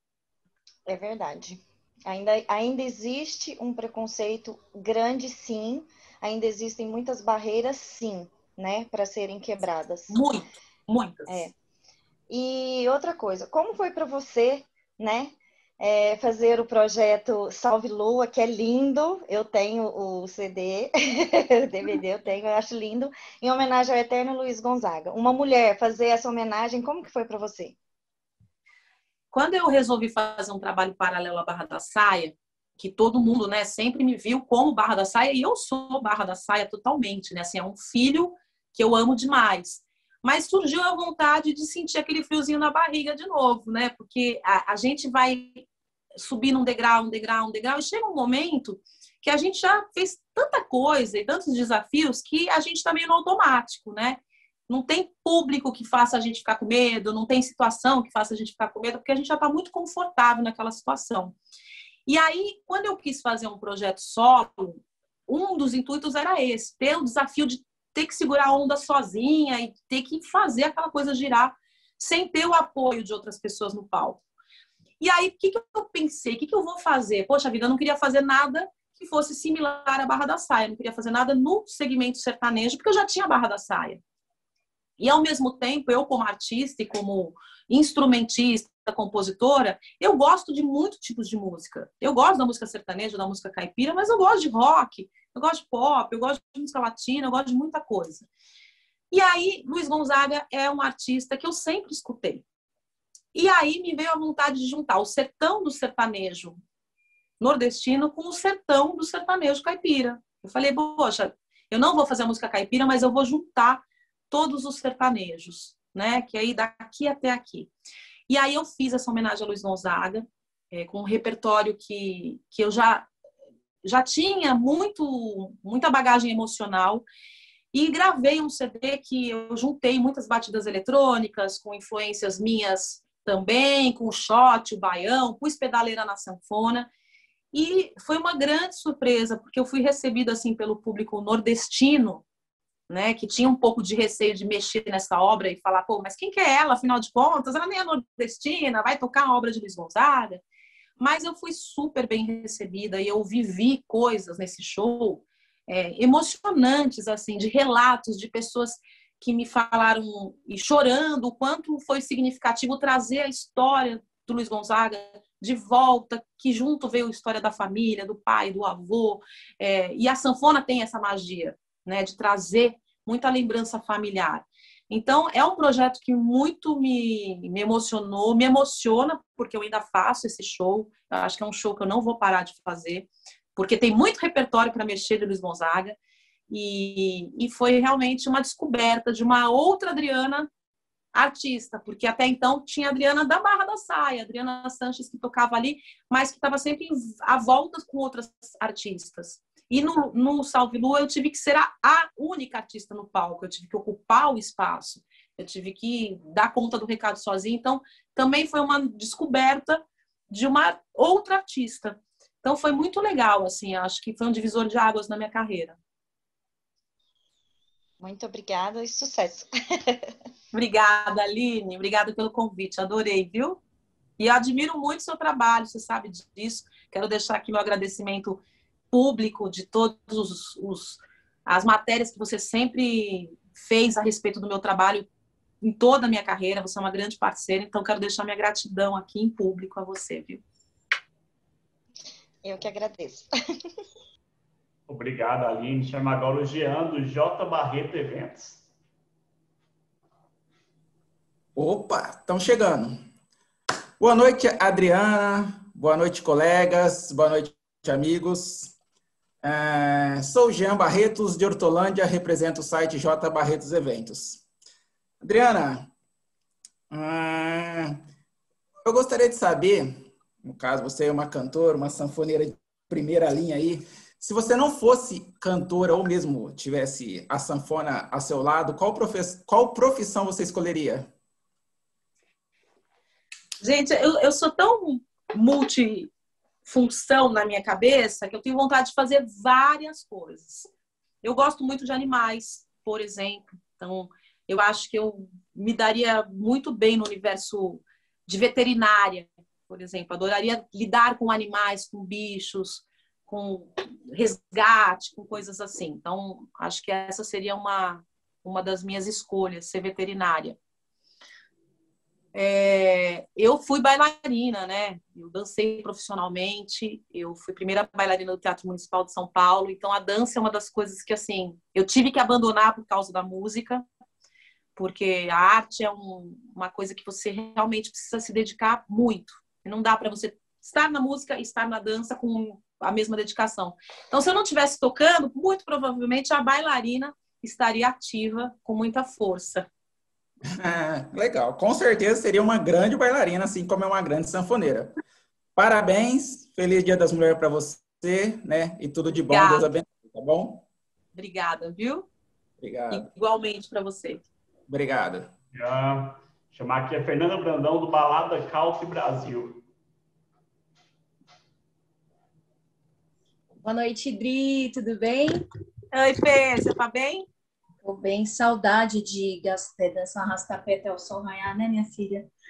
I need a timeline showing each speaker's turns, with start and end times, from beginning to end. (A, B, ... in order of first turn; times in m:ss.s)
0:00.8-0:10.2 A
0:10.1-0:11.5 B
0:11.3-0:11.5 A
0:12.3-0:27.8 A
0:29.3-0:45.6 B
0:46.2-1:01.3 B
1:02.1-1:14.2 B
1:15.0-1:24.0 B
1:25.0-1:38.3 B
1:39.1-1:42.4 B
1:43.3-1:46.6 B
1:47.4-1:57.7 B
1:58.3-2:03.1 B
2:03.8-2:07.0 B
2:07.7-2:16.9 B
2:17.5-2:22.2 B
2:22.9-2:30.4 B
2:31.0-3:06.0 B
3:06.5-3:10.5 B
3:11.1-3:35.8 B
3:38.0-3:40.1 A
3:40.5-3:43.6 B
3:44.2-3:55.1 B
3:55.6-4:00.4 B
4:02.4-4:03.3 A
4:04.9-4:08.6 C
4:11.6-4:13.0 D
4:14.0-4:18.7 D
4:19.4-4:24.4 D
4:25.2-4:25.9 D
4:26.9-4:28.0 D
4:28.8-4:41.1 D
4:43.6-4:46.1 B
4:46.6-4:50.7 B
4:51.2-5:10.6 B
5:12.3-5:23.8 B
5:24.8-5:39.6 B
5:40.5-5:44.9 D
5:45.6-5:50.6 D
5:49.3-5:49.7 B
5:51.1-5:52.0 B
5:52.6-5:53.1 D
5:52.9-5:54.2 B
5:54.7-5:55.3 D
5:55.5-5:59.6 C
6:03.6-6:05.4 E
6:05.9-6:07.2 B
6:07.8-6:12.3 E